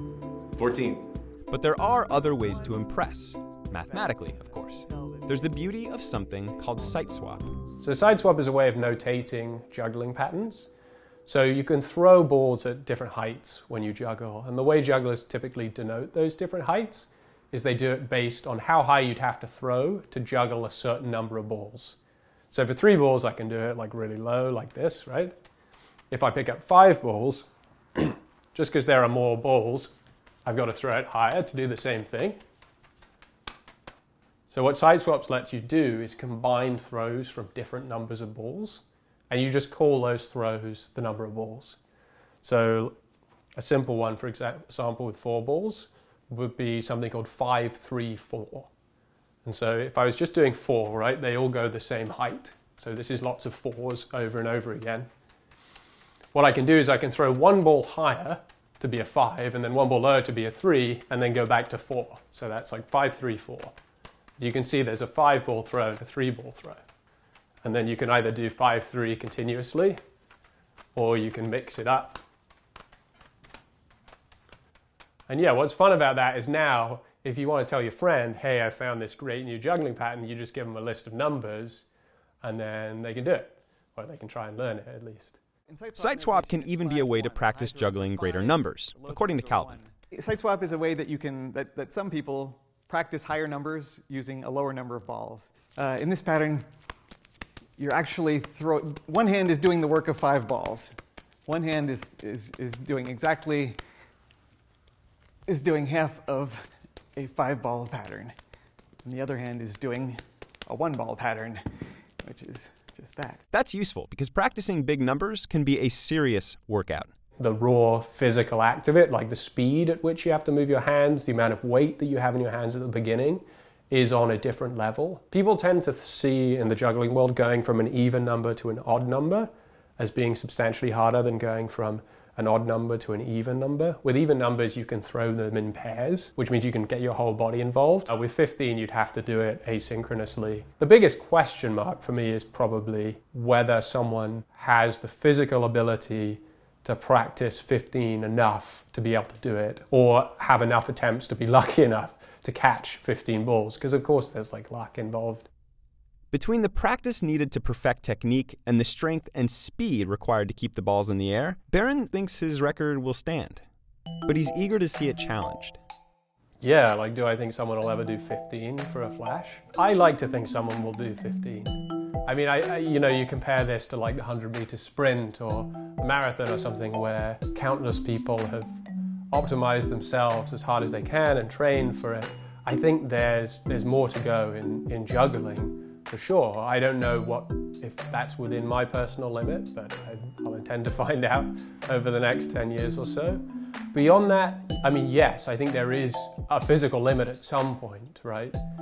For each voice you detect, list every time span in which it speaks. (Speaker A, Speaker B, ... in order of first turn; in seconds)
Speaker A: 0.6-7.5, 86.0-89.8, 113.5-117.1, 156.3-163.6, 164.3-165.8
Speaker B: 3.9-5.7, 85.7-96.7, 97.8-103.8, 105.5-108.3, 109.0-111.6, 112.2-113.4
Speaker C: 7.8-10.7, 11.3-22.0, 22.5-25.3, 26.1-29.9, 30.4-32.4, 34.5-41.8, 42.4-43.0, 43.6-48.7, 49.5-55.1, 56.3-63.7, 64.4-66.8, 67.6-70.0, 71.0-72.2, 75.3-81.8, 82.4-85.4, 117.4-155.5, 166.6-178.8, 179.3-198.6